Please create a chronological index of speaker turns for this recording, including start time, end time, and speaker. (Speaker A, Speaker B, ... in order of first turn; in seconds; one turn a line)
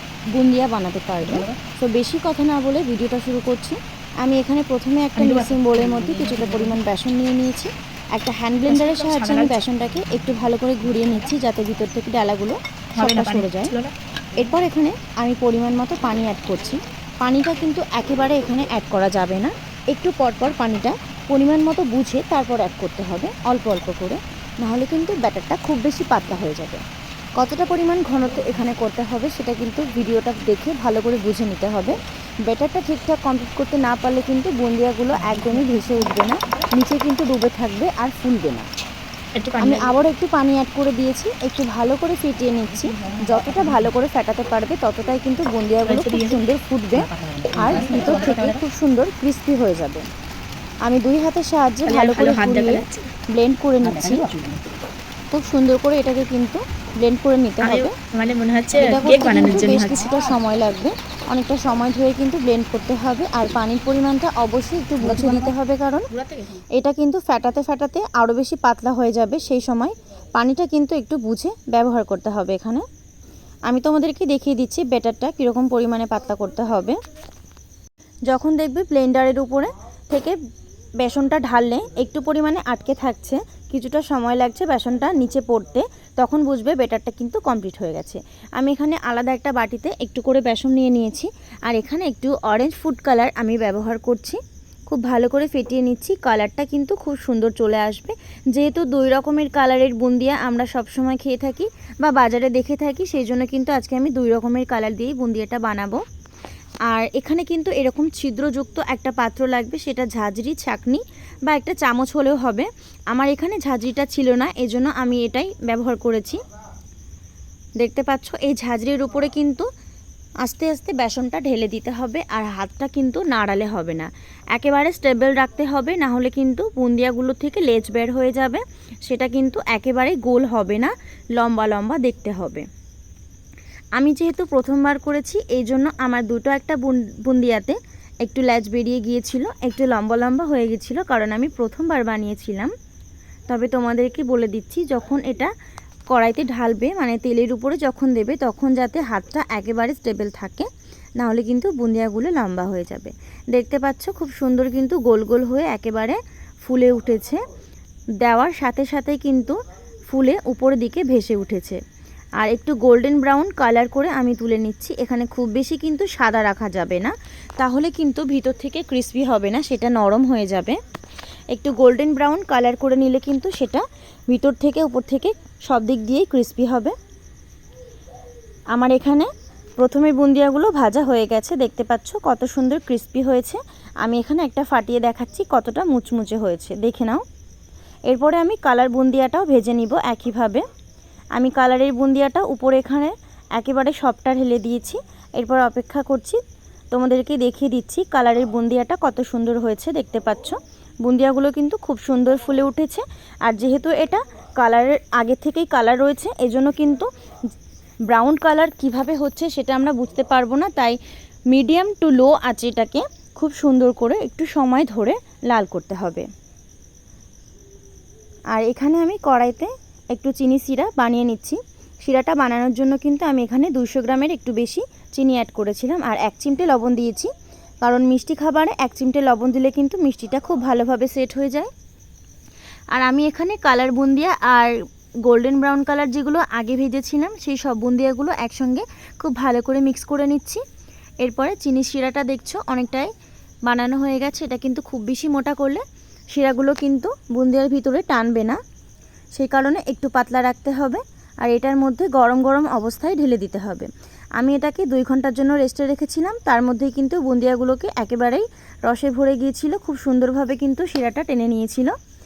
Speaker A: 0.3-13.7
Speaker B: 1.2-1.6
Speaker B: 5.2-6.8
Speaker B: 8.7-9.6
Speaker B: 12.9-13.9
Speaker A: 14.3-26.8
Speaker A: 27.4-38.7
Speaker B: 35.3-35.9
Speaker B: 39.4-40.0
Speaker A: 39.6-50.0
Speaker B: 43.0-43.7
Speaker B: 45.8-46.4
Speaker B: 47.0-48.6
Speaker A: 50.8-52.8
Speaker B: 51.9-53.1
Speaker A: 53.3-54.3
Speaker B: 53.9-54.6
Speaker A: 55.3-57.9
Speaker B: 57.6-60.2
Speaker A: 58.8-66.1
Speaker B: 65.2-65.5
Speaker B: 66.1-66.6
Speaker A: 66.8-72.8
Speaker A: 73.7-77.0
Speaker A: 78.3-80.4
Speaker A: 81.0-106.0
Speaker A: 106.9-116.4
Speaker A: 117.8-119.7
Speaker A: 120.4-132.7
Speaker A: 133.9-142.7
Speaker A: 143.5-145.5
Speaker A: 146.1-157.4
Speaker A: 158.2-159.6
Speaker A: 160.1-161.8
Speaker A: 162.4-170.8
Speaker A: 171.5-176.9
Speaker A: 178.7-187.2
Speaker A: 188.1-190.6
Speaker A: 191.3-196.4
Speaker A: 196.9-207.1
Speaker A: 208.1-211.0
Speaker A: 211.5-216.3
Speaker A: 218.5-227.3
Speaker A: 227.8-231.7
Speaker A: 232.9-234.7
Speaker A: 235.2-240.6
Speaker A: 241.2-243.1
Speaker A: 243.7-245.8
Speaker A: 246.3-248.6
Speaker A: 249.3-261.9